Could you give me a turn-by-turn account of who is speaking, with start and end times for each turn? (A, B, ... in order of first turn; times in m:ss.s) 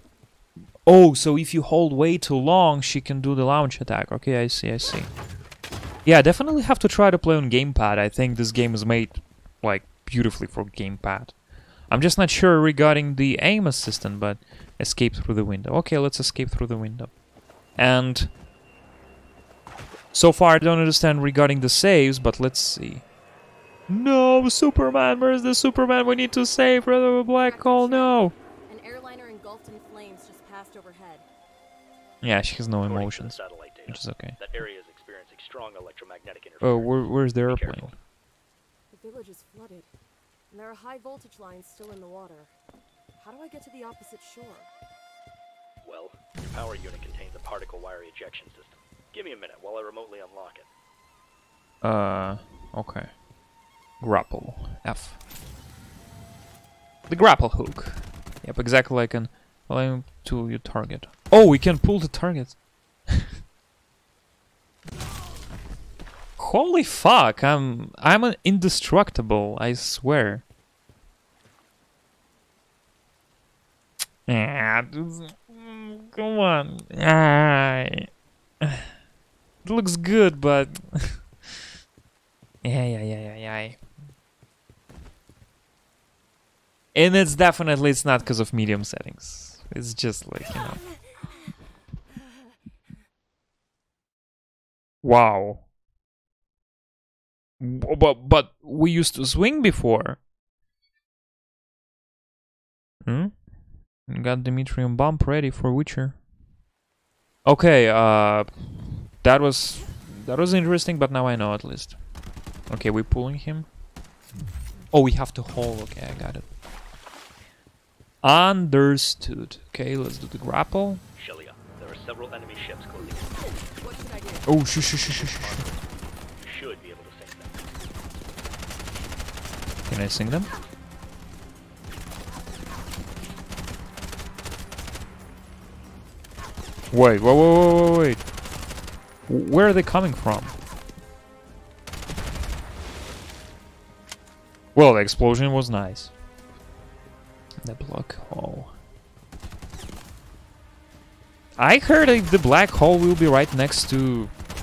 0:00.8-0:05.1 A
0:06.0-0:11.3 A
0:11.9-0:17.1 A
0:17.8-0:18.3 A
0:20.1-0:23.0 A
0:23.9-0:28.3 A
0:27.4-0:31.2 B
0:32.2-0:34.4 A
0:32.8-0:37.9 C
0:36.6-0:37.9 A
0:38.9-0:39.9 B
0:40.5-0:42.5 B
0:43.2-0:44.7 B
0:45.8-0:50.7 C
0:51.8-0:53.1 A
0:54.0-0:55.2 A
0:57.1-1:02.6 A
1:06.4-1:10.4 A
1:14.3-1:18.1 A
1:18.6-1:18.9 A
1:19.6-1:21.2 A
1:22.6-1:23.8 A
1:26.9-1:30.8 A
1:35.0-1:35.6 A
1:37.6-1:40.2 A
1:43.0-1:43.3 A
1:44.1-1:46.2 A
1:47.4-1:52.0 A
1:52.7-1:53.7 A
1:54.9-1:56.4 A
1:58.2-2:01.0 A
2:01.1-2:03.4 C
2:03.8-2:04.5 B
2:04.5-2:05.7 A
2:04.8-2:07.8 C
2:09.9-2:10.5 A
2:16.9-2:18.2 A
2:19.3-2:20.5 A
2:24.7-2:26.1 A
2:27.6-2:28.7 A
2:31.6-2:34.3 A